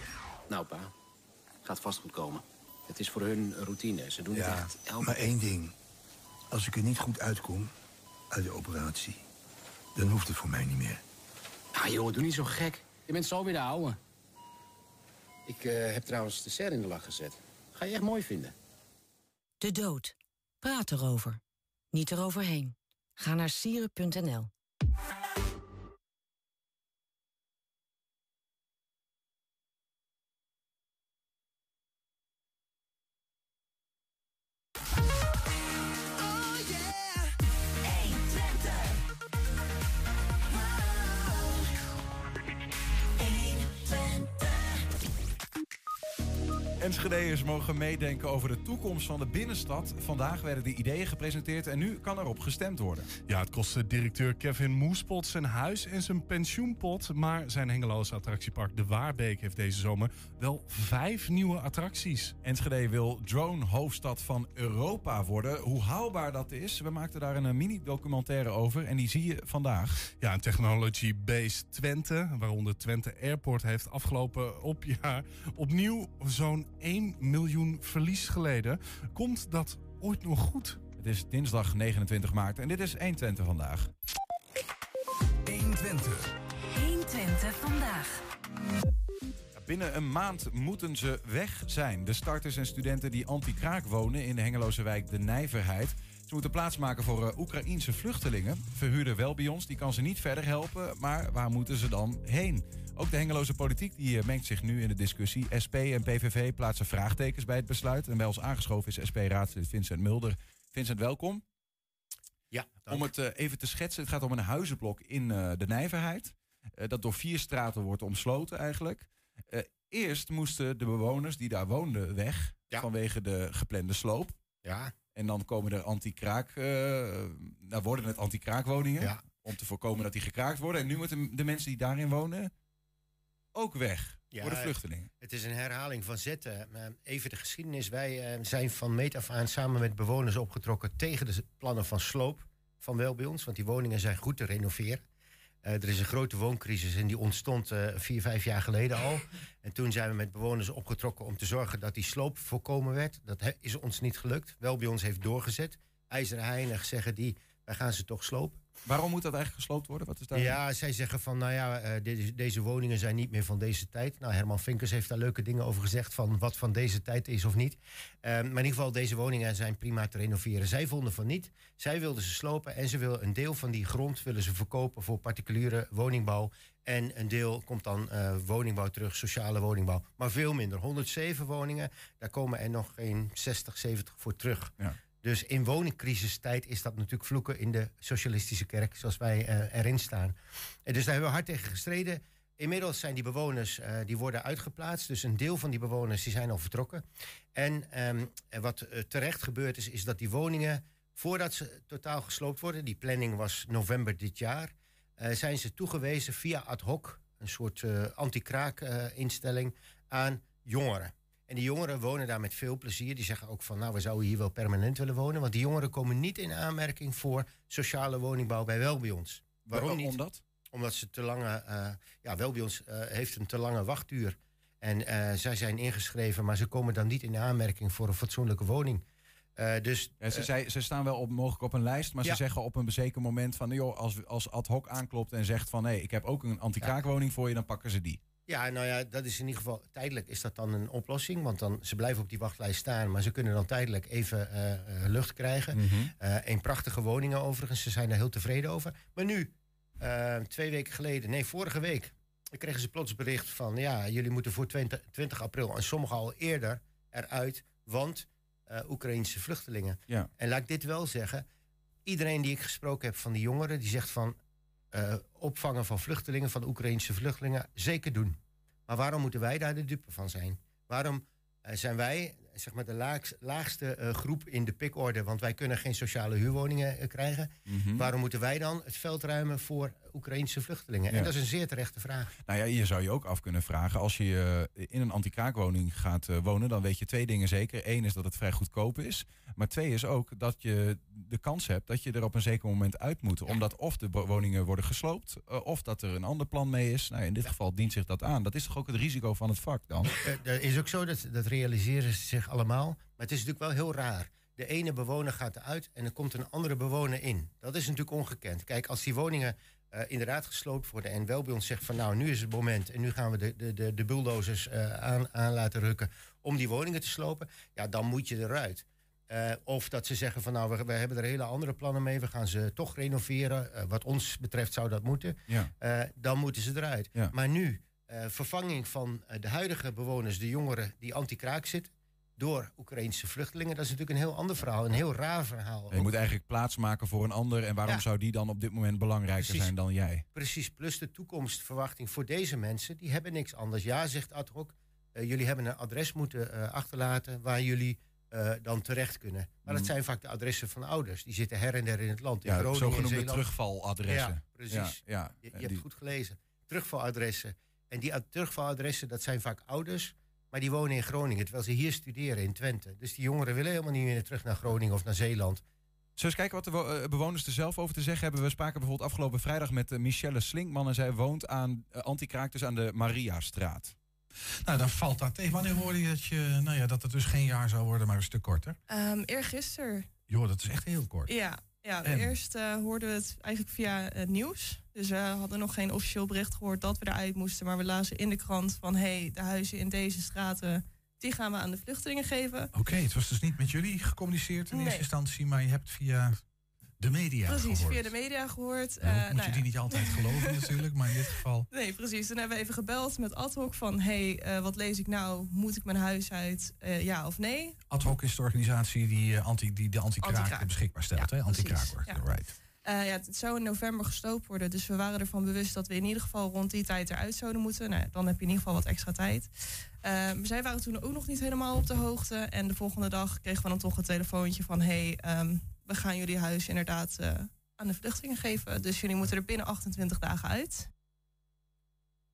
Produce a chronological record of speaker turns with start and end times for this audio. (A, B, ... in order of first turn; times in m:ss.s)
0:00.5-0:00.9 A
0:01.6-0:05.1 A
0:04.3-0:05.7 B
0:06.5-0:07.7 B
0:08.3-0:09.2 B
0:10.0-0:11.0 B
0:11.8-0:14.0 A
0:15.5-0:18.6 A
0:19.6-0:21.4 C
0:21.9-0:24.5 C
0:37.9-0:38.8 C
0:43.2-0:44.5 C
0:46.8-0:53.1 D
0:53.3-1:02.4 E
1:02.4-1:10.0 D
1:10.2-1:20.8 E
1:21.0-1:23.9 D
1:25.5-1:26.3 E
1:26.7-1:28.2 C
1:29.6-1:51.4 D
1:52.5-1:53.0 F
1:52.9-2:04.4 D
2:04.6-2:04.9 F
2:05.2-2:12.5 D
2:13.5-2:15.1 D
2:14.3-2:25.0 F
2:25.6-2:38.6 F
2:38.8-2:40.6 D
2:40.3-3:10.4 F
3:10.9-3:17.0 F
3:17.6-3:40.2 F
3:39.6-3:40.4 D
3:40.7-3:49.0 F
3:49.6-3:50.5 F
3:50.2-3:58.2 D
3:58.5-4:21.4 F
4:05.7-4:06.1 D
4:22.1-4:24.4 F
4:24.9-4:42.3 F
4:37.7-4:38.1 D
4:42.5-5:00.1 D
5:00.2-5:36.1 F
5:35.9-5:40.2 D
5:39.4-5:39.7 F
5:40.3-5:53.5 F
5:52.4-5:55.8 D
5:54.1-6:05.6 F
6:06.2-6:14.0 D
6:14.6-6:18.8 G
6:18.9-6:20.1 H
6:20.3-6:21.3 G
6:21.3-6:32.7 H
6:22.0-6:22.3 G
6:32.7-6:36.4 G
6:34.7-6:35.1 H
6:37.0-6:38.1 G
6:37.5-6:40.7 H
6:39.0-6:41.7 G
6:41.7-6:47.8 H
6:47.9-6:52.5 G
6:50.2-6:52.2 H
6:52.8-7:10.9 H